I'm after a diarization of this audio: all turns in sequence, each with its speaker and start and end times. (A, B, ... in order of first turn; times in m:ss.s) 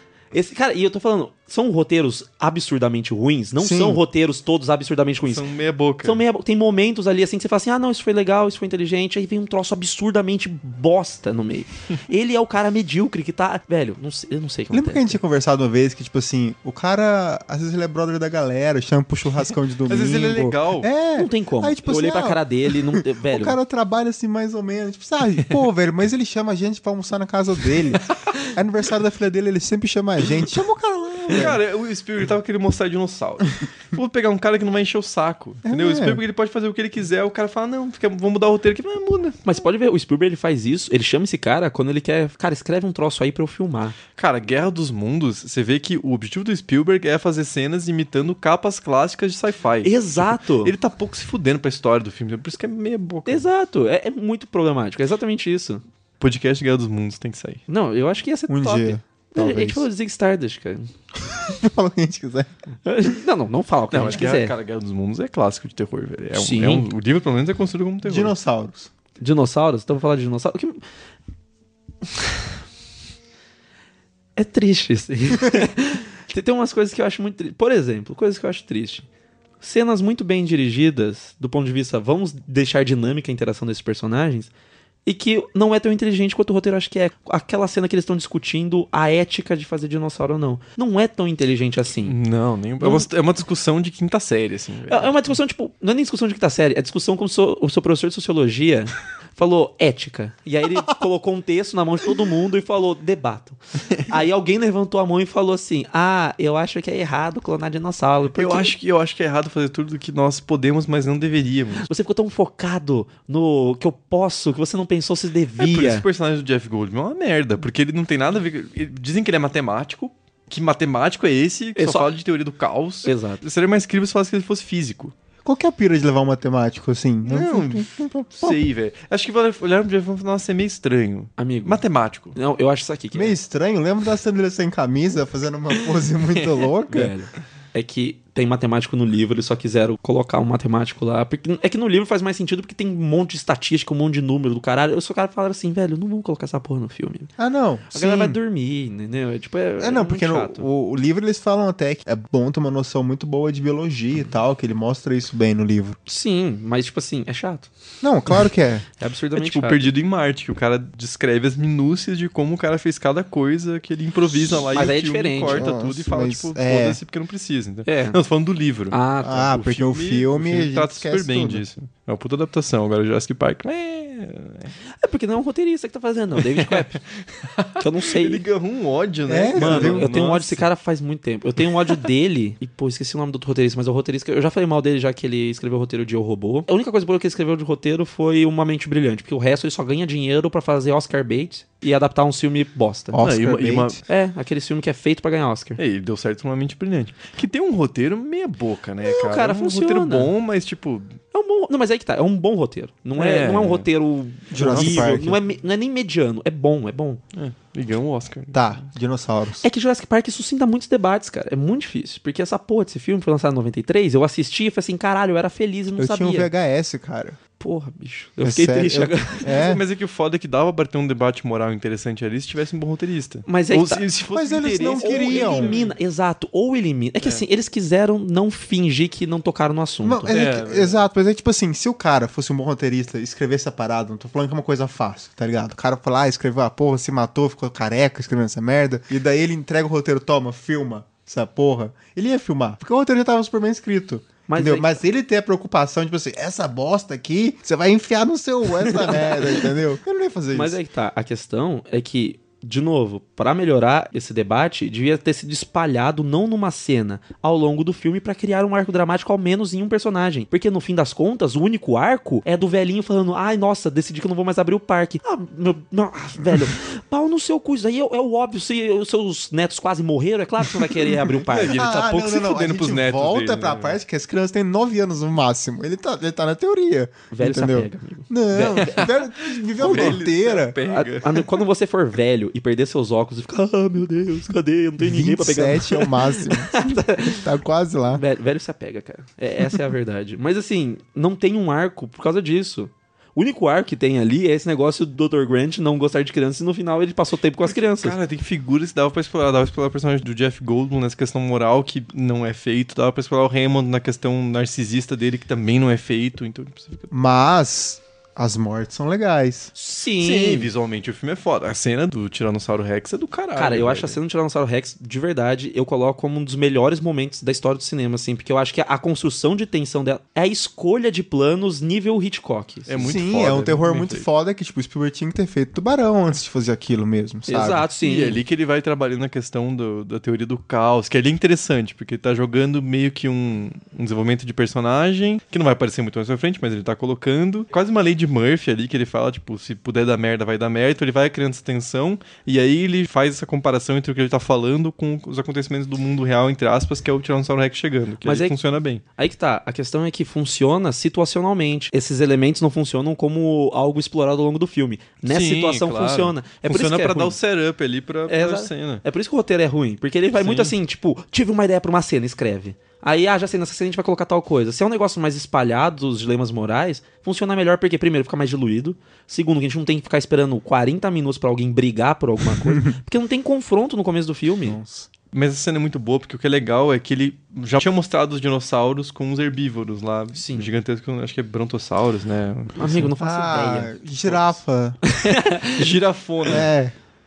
0:00.3-0:05.4 A
0:03.6-0:04.0 B
0:05.3-0:06.2 C
0:06.0-0:15.2 A
0:14.7-0:31.6 B
0:19.9-0:20.9 C
0:21.2-0:23.6 A
0:31.3-0:39.4 C
0:35.6-0:36.2 B
0:39.4-0:44.0 A
0:44.2-0:53.5 C
0:49.8-0:50.7 A
0:53.2-0:55.8 A
0:56.2-0:57.6 C
0:57.7-1:00.9 A
0:58.5-0:59.9 B
1:01.4-1:02.5 B
1:02.8-1:04.5 A
1:03.9-1:08.3 C
1:06.3-1:06.9 A
1:08.0-1:08.9 B
1:09.2-1:10.8 A
1:14.4-1:19.0 A
1:19.6-1:24.5 A
1:25.0-1:32.1 A
1:32.0-1:35.3 C
1:32.8-1:33.1 A
1:34.9-1:48.7 A
1:48.3-1:51.9 C
1:51.8-1:56.0 A
1:55.6-2:05.1 C
2:01.8-2:02.1 A
2:03.0-2:03.4 A
2:05.4-2:08.6 B
2:07.2-2:12.4 C
2:11.4-2:11.8 A
2:12.3-2:13.4 A
2:13.1-2:17.1 B
2:16.9-2:27.3 A
2:27.4-2:28.4 B
2:27.9-2:30.6 A
2:29.8-2:36.0 B
2:36.0-2:37.7 A
2:38.0-2:38.8 B
2:39.0-2:39.9 A
2:39.4-2:49.0 C
2:44.7-2:45.7 A
2:45.5-2:47.0 B
2:47.8-2:48.2 A
2:48.9-2:49.6 A
2:49.2-2:51.6 B
2:49.5-2:54.7 C
2:55.0-2:57.0 A
2:56.4-3:00.7 C
2:57.8-2:58.4 A
2:59.3-3:00.1 B
2:59.5-3:13.2 A
3:13.1-3:14.0 B
3:13.2-3:14.0 C
3:14.1-3:15.8 A
3:15.8-3:21.2 C
3:19.0-3:20.3 A
3:21.3-3:27.2 A
3:23.2-3:23.9 C
3:24.5-3:25.4 B
3:24.6-3:25.3 C
3:27.3-3:28.8 C
3:28.5-3:29.6 B
3:29.6-3:36.5 A
3:36.0-3:37.4 B
3:37.6-3:39.5 A
3:38.4-3:39.8 B
3:39.4-3:45.9 C
3:43.5-3:50.4 A
3:44.3-3:45.8 B
3:50.0-4:10.8 B
3:50.3-3:51.0 C
4:04.5-4:05.0 A
4:08.9-4:09.7 A
4:10.5-4:31.8 A
4:31.3-4:34.0 C
4:31.7-4:40.8 B
4:37.3-4:39.1 A
4:38.7-4:41.6 C
4:39.8-4:40.2 A
4:40.8-4:47.5 A
4:45.0-4:48.2 B
4:48.1-4:58.2 A
4:57.7-5:07.1 C
5:07.1-5:09.7 B
5:09.7-5:10.7 A
5:10.2-5:14.2 C
5:13.6-5:23.0 A
5:22.9-5:24.2 C
5:23.0-5:27.8 B
5:27.5-5:28.4 A
5:28.0-5:49.0 C
5:48.2-5:48.6 A
5:49.2-5:57.4 A
5:55.2-5:59.0 C
5:58.3-6:14.8 A
6:00.3-6:00.7 C
6:14.6-6:15.1 B
6:15.3-6:23.1 C
6:20.3-6:20.7 A
6:22.8-6:23.9 A
6:23.2-6:25.0 B
6:25.1-6:25.9 A
6:25.6-6:26.7 C
6:26.4-6:26.9 B